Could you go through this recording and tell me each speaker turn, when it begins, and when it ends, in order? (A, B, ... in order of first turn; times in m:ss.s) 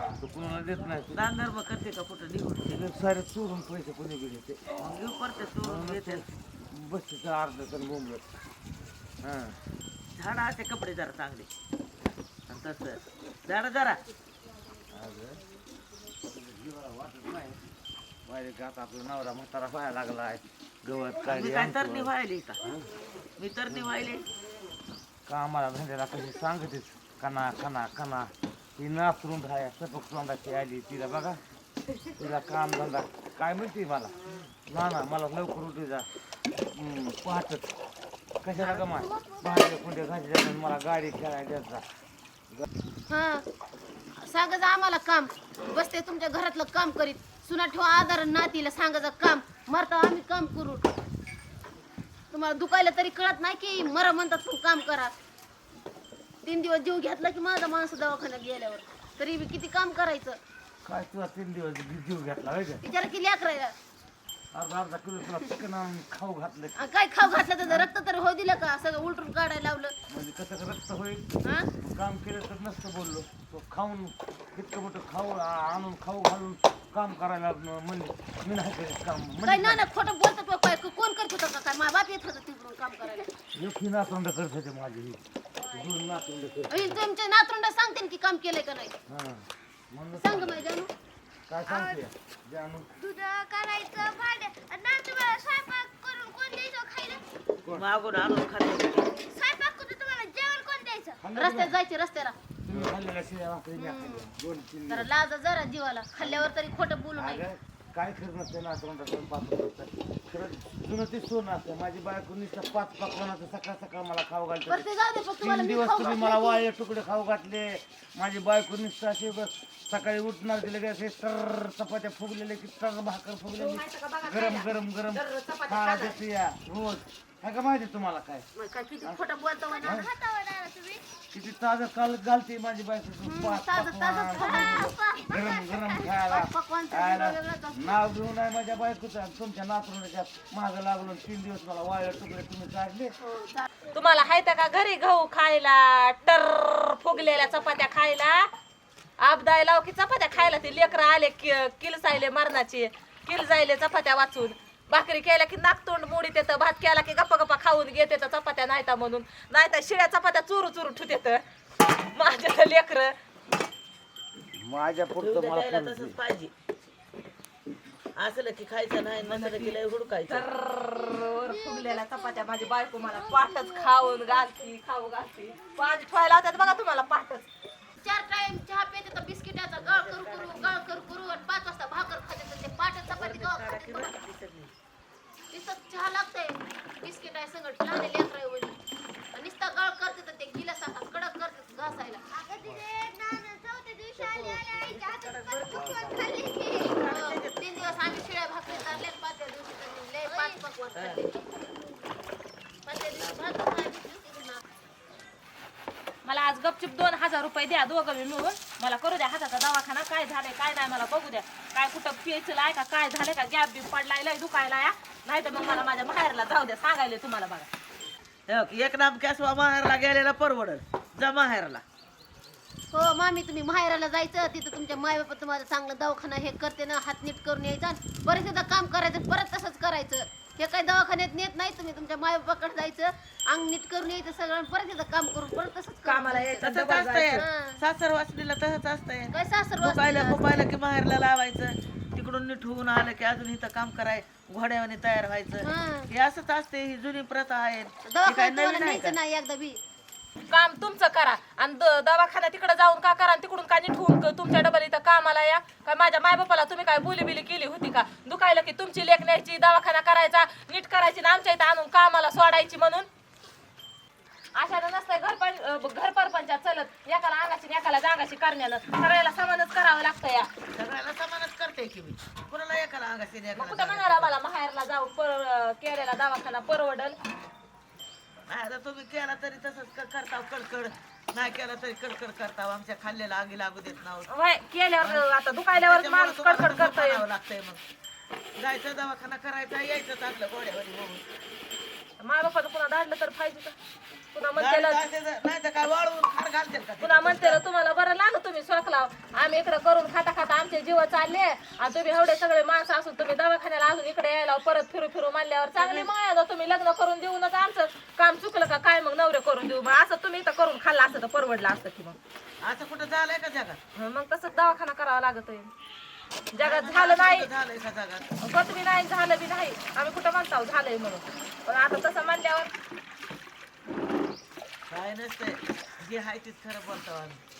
0:00.2-0:01.2 A
0:01.1-0:02.8 B
0:02.7-0:04.7 A
0:04.8-0:06.2 B
0:05.6-0:08.2 A
0:09.2-0:09.6 A
0:10.2-0:11.5 B
0:12.5-0:14.0 B
0:14.9-0:15.4 A
0:16.2-0:17.6 A
0:18.2-0:22.1 A
0:21.2-0:22.6 B
0:23.4-0:24.3 B
0:25.3-0:31.4 A
0:32.2-0:34.1 A
0:34.7-0:36.1 A
0:36.7-0:37.7 A
0:38.4-0:41.8 A
0:39.2-0:39.5 C
0:43.1-0:43.4 D
0:44.2-0:50.9 D
0:52.3-0:55.1 D
0:56.4-1:00.4 D
1:00.8-1:02.8 A
1:02.8-1:03.7 D
1:04.5-1:06.9 A
1:06.8-1:09.9 D
1:07.6-1:07.9 A
1:10.1-1:19.8 A
1:11.4-1:11.7 D
1:19.4-1:23.3 D
1:23.5-1:25.2 A
1:25.6-1:26.0 C
1:25.7-1:27.0 A
1:26.7-1:28.9 D
1:29.1-1:30.6 A
1:30.2-1:30.9 D
1:31.5-1:32.8 A
1:31.7-1:32.0 C
1:33.0-1:37.2 C
1:37.7-1:39.2 B
1:39.3-1:41.2 C
1:41.2-1:41.8 A
1:41.4-1:42.4 D
1:42.6-1:45.1 A
1:43.8-1:44.3 D
1:44.9-1:47.4 D
1:46.2-1:46.5 A
1:47.2-2:08.5 A
1:54.7-1:56.6 D
2:03.6-2:06.2 E
2:08.6-2:10.1 D
2:09.6-2:11.0 C
2:09.8-2:10.1 A
2:11.3-2:23.1 A
2:13.2-2:15.0 D
2:14.4-2:16.1 C
2:16.2-2:18.0 D
2:23.2-2:23.7 D
2:23.9-2:28.5 E
2:29.2-2:41.4 E
2:42.1-2:43.1 E
2:44.6-2:46.2 A
2:45.2-2:46.5 B
2:48.2-2:50.4 B
2:49.2-2:49.8 E
2:50.3-2:57.5 E
2:51.4-2:54.6 C
2:58.0-3:04.1 D
2:59.8-3:00.8 B
3:03.1-3:04.7 B
3:05.5-3:08.8 D
3:09.3-3:12.2 D
3:12.3-3:17.0 C
3:14.2-3:17.9 B
3:17.0-3:21.4 D
3:20.2-3:20.6 C
3:20.9-3:21.2 B
3:21.4-3:22.1 C
3:22.8-3:24.6 D
3:26.2-3:37.7 E
3:38.5-3:41.8 B
3:42.9-3:56.5 D
3:56.0-3:57.4 E
3:56.3-4:09.2 B
3:57.3-3:57.8 D
3:59.3-4:00.7 D
4:05.6-4:06.1 D
4:08.1-4:09.8 D
4:10.5-4:23.1 E
4:24.5-4:30.5 E
4:30.7-4:34.3 B
4:33.5-4:37.2 E
4:38.5-4:44.3 B
4:44.3-4:47.2 E
4:45.0-4:47.8 B
4:48.6-4:51.2 B
4:52.2-4:53.8 E
4:54.3-4:55.0 E
4:54.6-4:57.6 B
4:57.0-5:12.2 E
5:05.8-5:06.1 B
5:12.6-5:13.8 B
5:13.9-5:15.7 E
5:16.5-5:17.5 E
5:16.6-5:18.3 B
5:18.4-5:22.7 E
5:24.9-5:27.4 B